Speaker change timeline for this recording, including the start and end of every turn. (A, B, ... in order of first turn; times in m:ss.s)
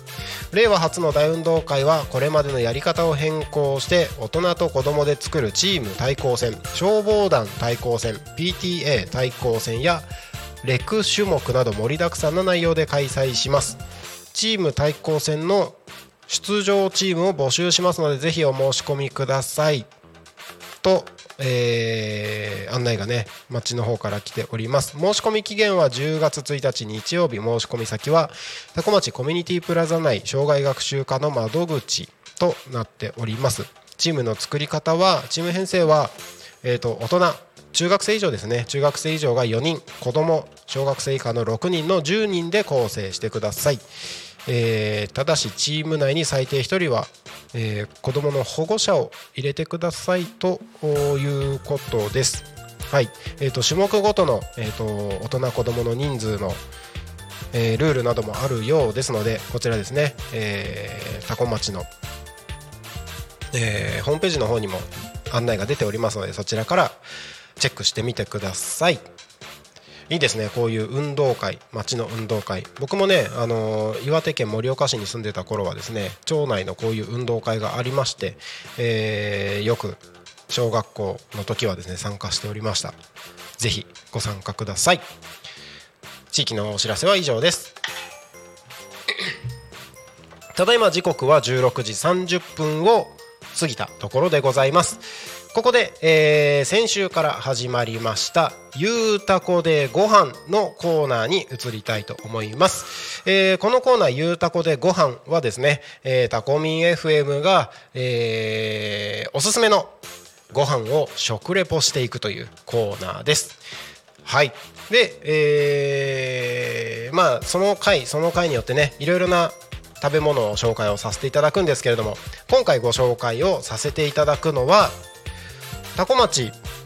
0:00.5-0:10.1 A
0:10.6-0:13.8 A
0:14.3-0:15.8 A
0:16.3-0:19.9 A
0:20.8-0:43.8 A
0:44.5-0:56.6 A
0:57.5-1:01.9 A
1:03.5-1:07.0 A
1:07.6-1:09.0 A
1:10.1-1:22.9 A
1:23.6-1:25.0 A
1:26.3-1:27.7 A
1:30.6-1:50.0 A
1:50.5-1:53.6 A
1:54.2-2:05.0 A
2:06.0-2:06.6 A